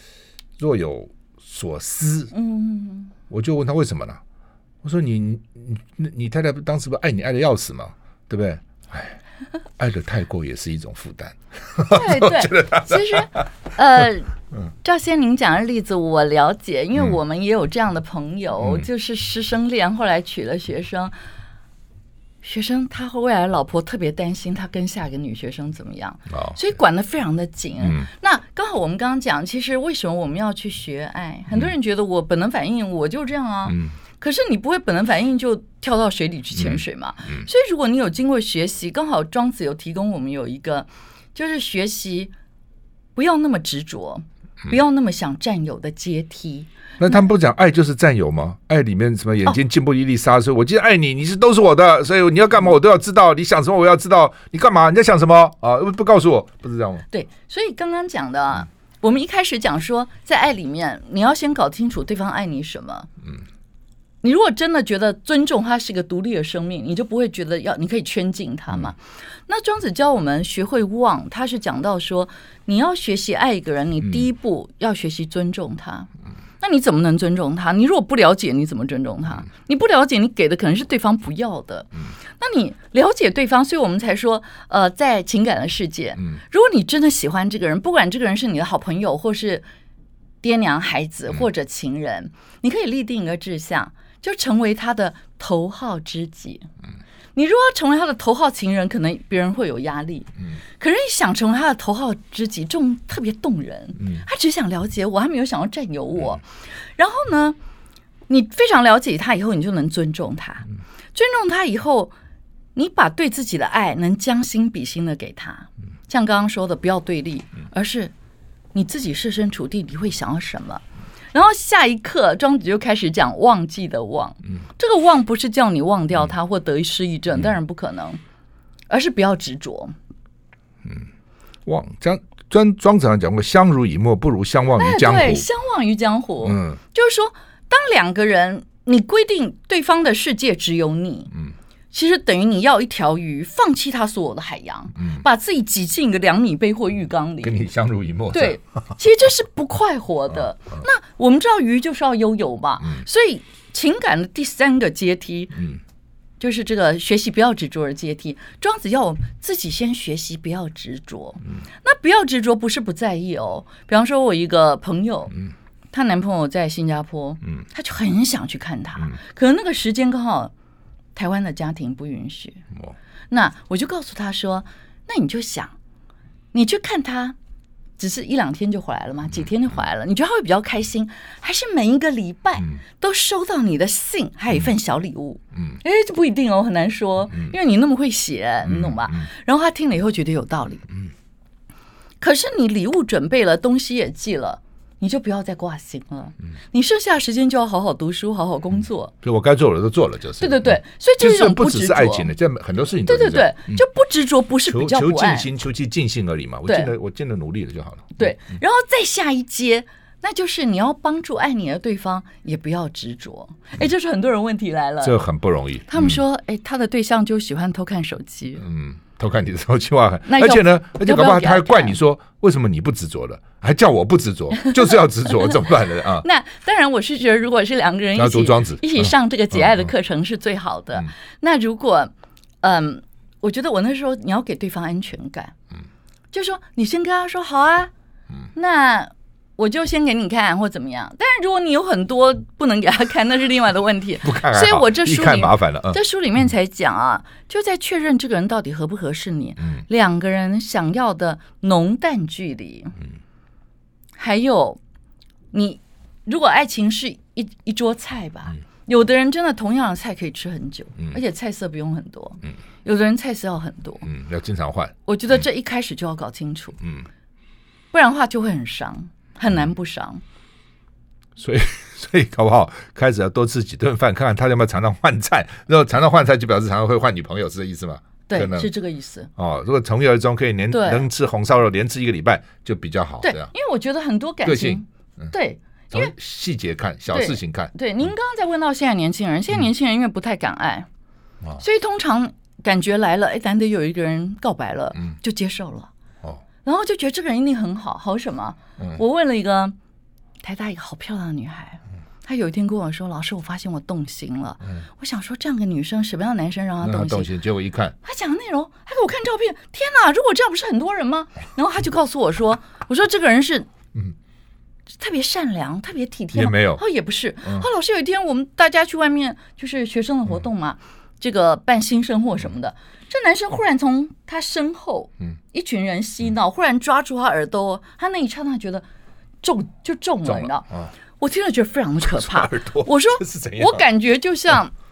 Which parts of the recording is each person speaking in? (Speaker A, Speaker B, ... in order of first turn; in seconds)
Speaker A: 0.6-2.3, 3.3-4.2, 4.8-9.2, 9.8-13.4, 26.3-26.6, 27.8-28.1, 33.7-34.0, 36.6-36.8, 47.0-57.0, 131.7-135.5, 136.4-136.8, 147.4-148.6, 188.7-189.3, 199.2-203.8, 204.7-208.2, 215.0-216.2, 218.6-226.3, 228.2-229.1, 244.2-246.0, 264.0-264.9, 266.8-267.1, 271.4-278.7, 279.4-283.5, 284.4-285.3, 285.9-287.7, 306.8-307.9, 316.3-316.8, 330.3-330.9, 332.1-333.9
Speaker B: 2.3-3.1, 11.9-21.1, 22.4-42.3, 43.2-46.7, 57.1-63.1, 64.2-89.7, 90.4-96.7, 97.3-107.6, 108.3-112.1, 112.8-118.1, 118.7-128.2, 128.9-130.0, 134.8-141.3, 141.9-147.6, 148.3-155.7, 156.4-165.4, 165.9-170.5, 171.2-172.6, 173.3-175.7, 176.5-177.4, 178.0-190.9, 192.2-199.1, 200.4-202.3, 203.1-205.5, 206.7-206.9, 208.2-215.2, 215.9-218.6, 220.3-222.0, 225.4-235.5, 236.3-237.9, 238.6-252.9, 254.2-254.8, 255.5-264.1, 265.1-266.8, 267.9-270.2, 278.3-279.3, 280.7-281.1, 283.2-286.1, 287.1-290.9, 291.6-295.9, 296.6-299.8, 300.4-307.3, 308.0-313.7, 315.0-328.9, 329.4-330.7, 331.2-334.7